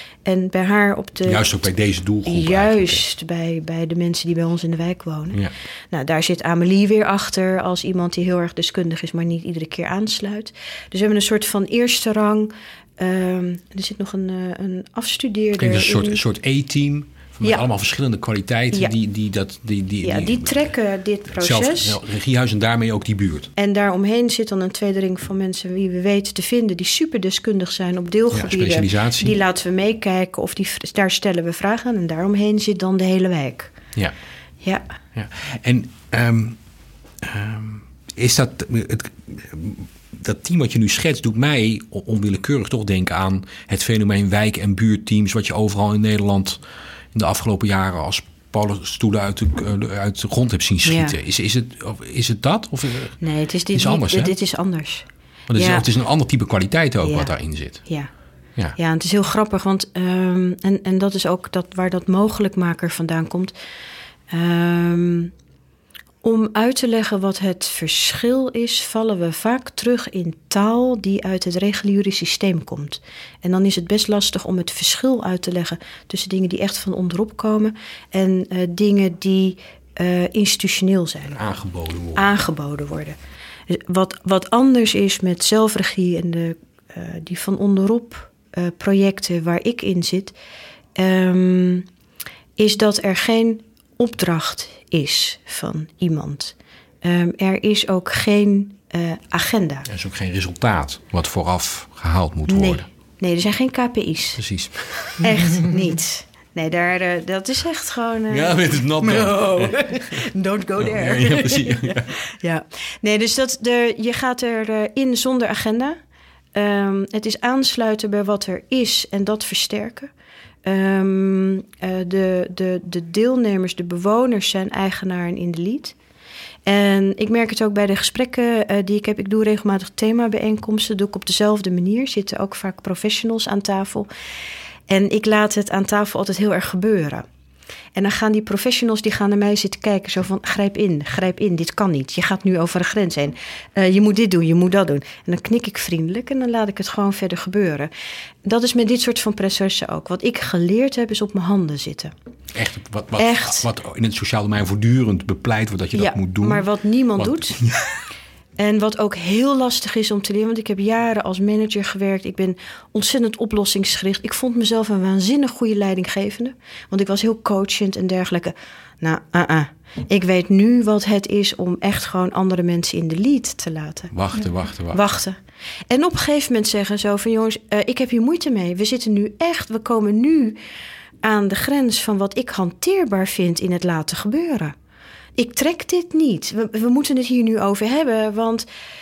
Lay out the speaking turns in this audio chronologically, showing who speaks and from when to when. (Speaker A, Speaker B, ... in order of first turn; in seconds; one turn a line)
Speaker A: 0.3-1.5
Speaker B: 1.3-3.0
Speaker A: 2.2-16.2
Speaker B: 15.6-20.7
Speaker A: 20.0-22.0
Speaker B: 21.3-23.5
Speaker A: 23.6-33.7
Speaker B: 28.3-29.4
Speaker A: 34.6-34.9
Speaker B: 35.1-36.6
Speaker B: 37.2-46.6
Speaker B: 47.1-53.2
Speaker A: 50.9-51.2
Speaker A: 53.2-55.9
Speaker B: 53.7-54.3
Speaker B: 55.5-57.8
Speaker A: 57.0-57.3
Speaker A: 57.9-58.1
Speaker A: 58.8-63.5
Speaker A: 64.3-65.3
Speaker A: 66.2-81.4
Speaker B: 81.3-82.3
Speaker A: 82.2-83.2
Speaker A: 83.7-90.3
Speaker A: 91.0-91.9
Speaker A: 92.6-99.9
Speaker B: 99.9-102.9
Speaker A: 102.5-104.4
Speaker B: 104.4-105.3
Speaker A: 105.2-116.0
Speaker B: 108.3-110.2
Speaker B: 110.8-112.2
Speaker A: 116.5-120.1
Speaker A: 120.7-126.0
Speaker A: 126.7-134.1
Speaker A: 134.9-137.2
Speaker A: 137.9-147.9
Speaker A: 148.4-152.1
Speaker B: 152.5-157.8
Speaker A: 153.2-153.7
Speaker A: 155.9-157.6
Speaker A: 158.6-174.1
Speaker B: 174.1-175.0
Speaker A: 174.9-175.4
Speaker A: 175.9-180.6
Speaker A: 181.2-184.8
Speaker A: 185.4-188.7